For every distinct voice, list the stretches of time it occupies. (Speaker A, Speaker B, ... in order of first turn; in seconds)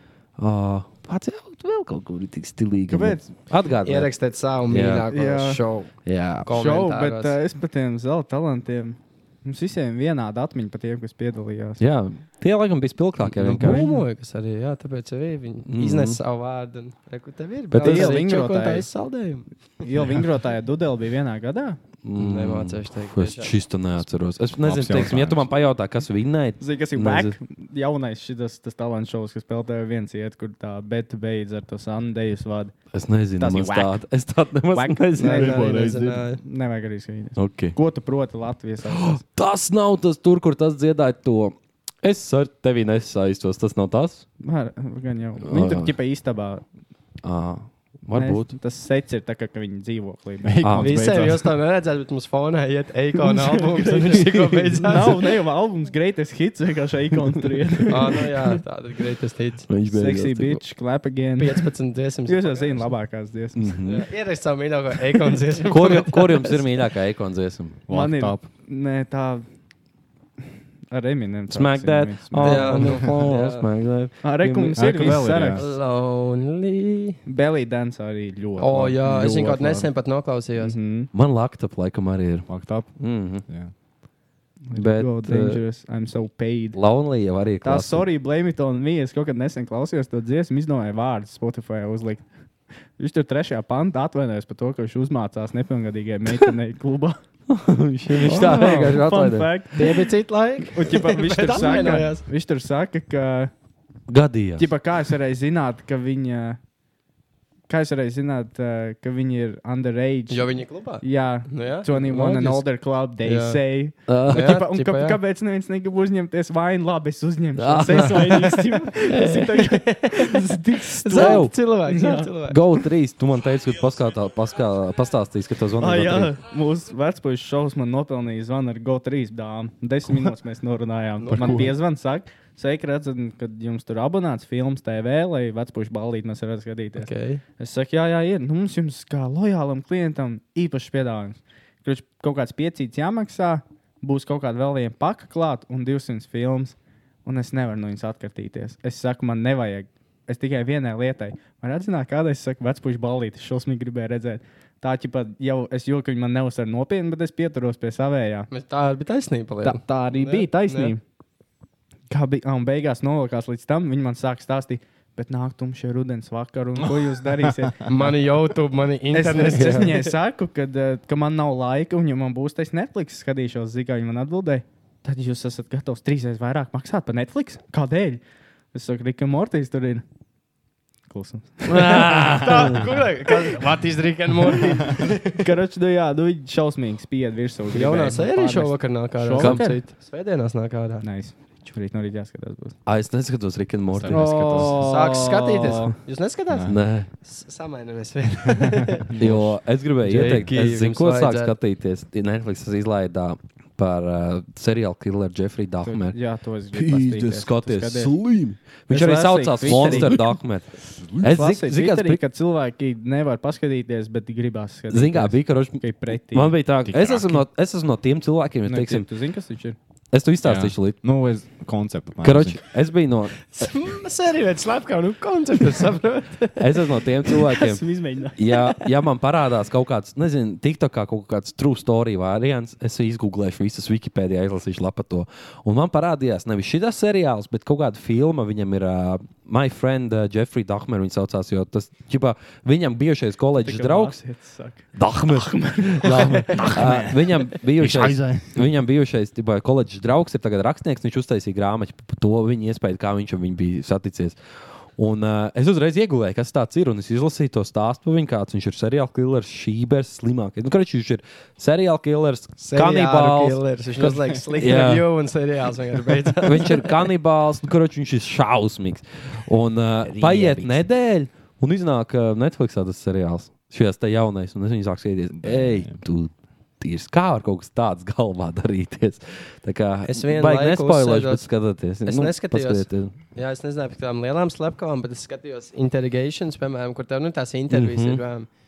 Speaker A: 0.4-4.1, 4.7-5.0, 6.0-6.5, 11.8-13.9, 15.7-16.2, 17.7-18.1, 22.0-27.3, 32.9-35.5, 37.4-37.8, 38.9-44.2, 45.5-45.9, 47.2-48.5, 50.6-51.0, 54.1-54.6, 59.7-60.6, 63.5-64.0, 65.7-67.8, 71.5-74.8, 81.1-83.4, 84.7-85.6, 86.7-88.1, 97.5-99.5, 104.1-104.7, 114.1-114.6, 117.6-118.4, 121.1-121.5, 122.5-126.3, 169.6-169.8, 181.7-182.9, 189.4-189.7, 192.8-194.7, 196.7-197.1, 199.2-206.2, 206.7-212.2, 214.9-219.1, 220.1-221.0, 222.2-223.7, 226.6-227.8, 228.3-244.2, 244.9-254.3, 255.0-263.6, 264.5-265.1, 266.4-283.1, 287.7-288.2
Speaker B: 2.9-3.3, 5.1-5.6, 6.5-11.8, 13.6-14.0, 17.8-18.9, 19.8-21.8, 26.6-32.7, 33.4-34.0, 34.7-35.8, 36.4-39.2, 44.4-46.6, 48.1-50.6, 53.2-58.6, 59.9-61.7, 62.3-63.7, 67.9-69.4, 70.9-73.0, 74.2-75.7, 77.2-79.4, 80.6-81.1, 84.7-86.8, 87.6-92.2, 93.0-97.2, 98.2-100.1, 100.7-103.5, 104.6-106.6, 107.7-122.3, 125.8-158.5, 159.6-161.0, 162.1-167.8, 169.1-178.2, 178.7-180.0, 181.1-182.2, 185.3-189.8, 191.0-192.8, 194.1-195.9, 205.8-208.1, 208.9-210.2, 211.2-216.6, 218.7-219.8, 227.6-228.4, 243.6-246.8
Speaker C: 3.8-5.9, 6.4-7.3, 13.3-19.4, 22.2-23.5, 35.2-36.4, 50.8-55.3, 57.9-59.7, 61.4-62.9, 63.8-66.7, 72.4-73.7, 75.5-77.2, 78.6-80.8, 98.2-98.9, 99.8-102.2, 110.3-112.6, 113.2-113.6, 114.3-115.2, 117.9-122.6, 131.2-131.7, 137.0-137.4, 158.5-160.9, 167.9-170.1, 181.7-185.4, 187.7-191.1, 194.8-199.1, 200.0-201.5, 223.5-227.5, 228.5-228.7, 262.6-267.0, 270.1-270.8, 280.1-281.5, 282.0-288.5
Speaker D: 24.6-25.5, 35.2-36.2, 50.4-51.5, 67.9-68.5, 74.7-75.6, 79.0-79.9, 82.5-82.9, 83.4-83.7, 130.0-130.3, 131.3-131.7, 166.8-168.0, 193.9-195.1, 196.5-196.8, 198.4-199.6, 200.2-200.5, 209.8-210.1, 211.0-211.3, 216.8-217.4, 220.4-222.6, 246.6-248.8, 275.3-276.0